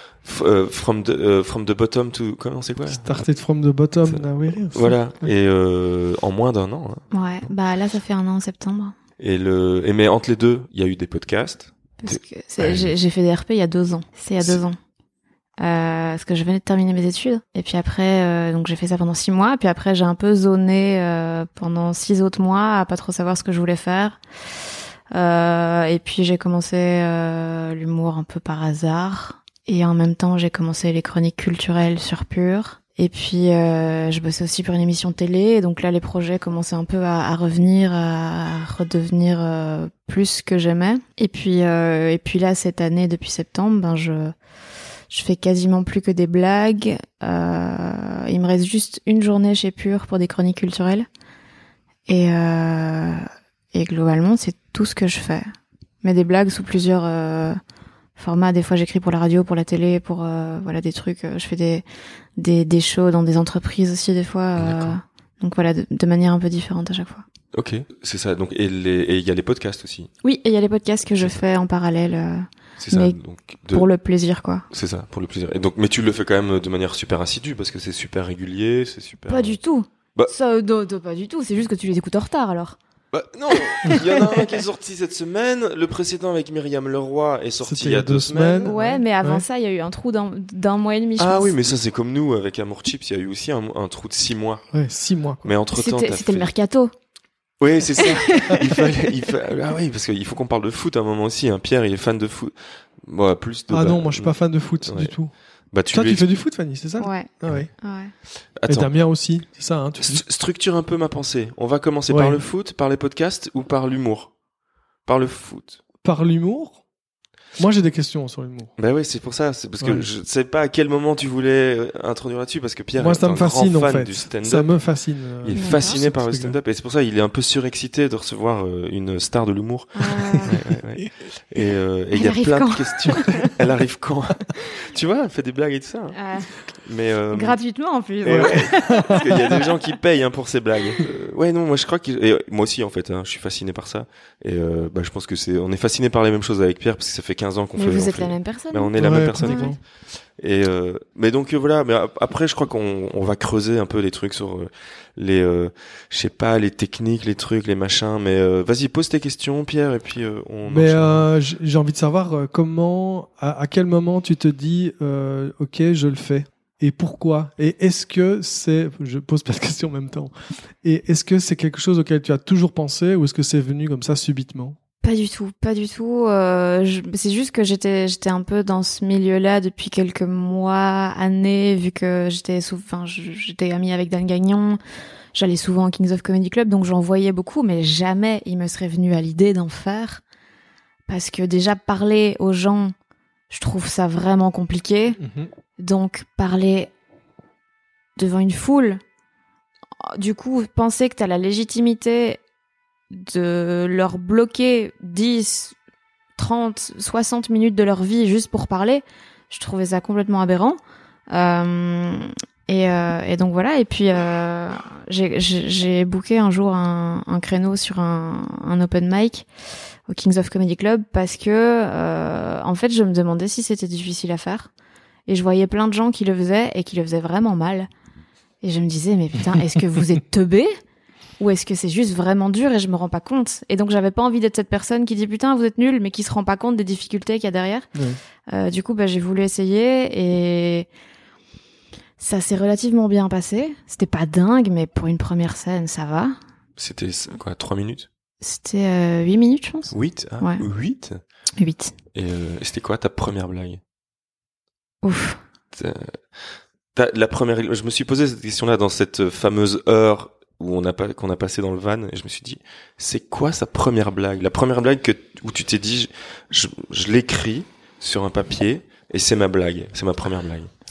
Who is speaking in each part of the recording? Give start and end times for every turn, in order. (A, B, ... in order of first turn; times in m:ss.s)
0:00.2-0:03.2 A
0:02.9-0:05.3 B
0:04.0-0:07.0 A
0:07.1-0:08.9 C
0:09.2-0:12.9 A
0:12.0-0:14.8 C
0:15.6-0:24.2 C
0:25.1-0:44.3 C
0:45.1-0:51.1 C
0:52.1-0:55.5 C
0:56.0-0:57.6 C
0:58.2-1:01.8 C
1:02.4-1:07.2 C
1:04.6-1:05.0 A
1:07.5-1:10.1 A
1:10.2-1:13.2 C
1:11.1-1:11.4 A
1:12.8-1:13.9 A
1:13.7-1:14.6 C
1:14.7-1:19.6 A
1:19.3-1:22.8 C
1:23.1-1:28.7 A
1:23.7-1:24.6 C
1:27.6-1:29.4 B
1:28.6-1:31.6 C
1:31.2-1:34.6 A
1:34.7-1:35.5 B
1:35.4-1:36.5 A
1:35.7-1:36.9 C
1:37.6-1:45.1 A
1:38.0-1:38.9 C
1:43.7-1:45.3 B
1:45.7-1:46.3 A
1:45.9-1:47.7 B
1:47.0-1:48.1 C
1:48.6-1:48.9 A
1:48.7-1:50.2 B
1:50.0-1:54.3 A
1:52.1-1:52.4 B
1:55.0-1:55.8 A
1:56.0-1:56.8 B
1:57.6-1:58.7 B
1:58.8-2:04.8 A
1:59.8-2:00.1 B
2:03.0-2:06.6 B
2:05.4-2:16.2 A
2:05.5-2:06.0 C
2:09.9-2:10.6 C
2:10.5-2:11.0 B
2:12.1-2:13.5 C
2:16.1-2:16.6 C
2:16.7-2:17.6 A
2:17.3-2:19.7 C
2:18.2-2:29.7 A
2:18.4-2:19.2 B
2:27.8-2:29.8 C
2:29.0-2:29.8 B
2:30.4-2:41.2 A
2:40.7-2:50.3 B
2:50.8-2:54.8 B
2:55.0-3:04.8 C
3:05.3-3:10.2 C
3:11.1-3:12.9 C
3:13.5-3:15.2 C
3:15.2-3:15.5 B
3:15.8-3:16.9 C
3:18.2-3:19.0 C
3:20.0-3:22.4 C
3:23.1-3:25.7 C
3:26.4-3:30.8 C
3:31.3-3:39.4 C
3:40.1-3:44.7 C
3:45.3-3:47.9 C
3:48.6-3:50.7 C
3:51.4-3:57.9 C
3:58.5-4:00.9 C
4:02.2-4:06.3 C
4:06.8-4:08.1 A
4:08.4-4:10.6 C
4:09.9-4:11.2 A
4:11.6-4:11.9 C
4:12.1-4:13.8 A
4:15.0-4:15.4 C
4:15.7-4:16.2 A
4:16.9-4:30.7 A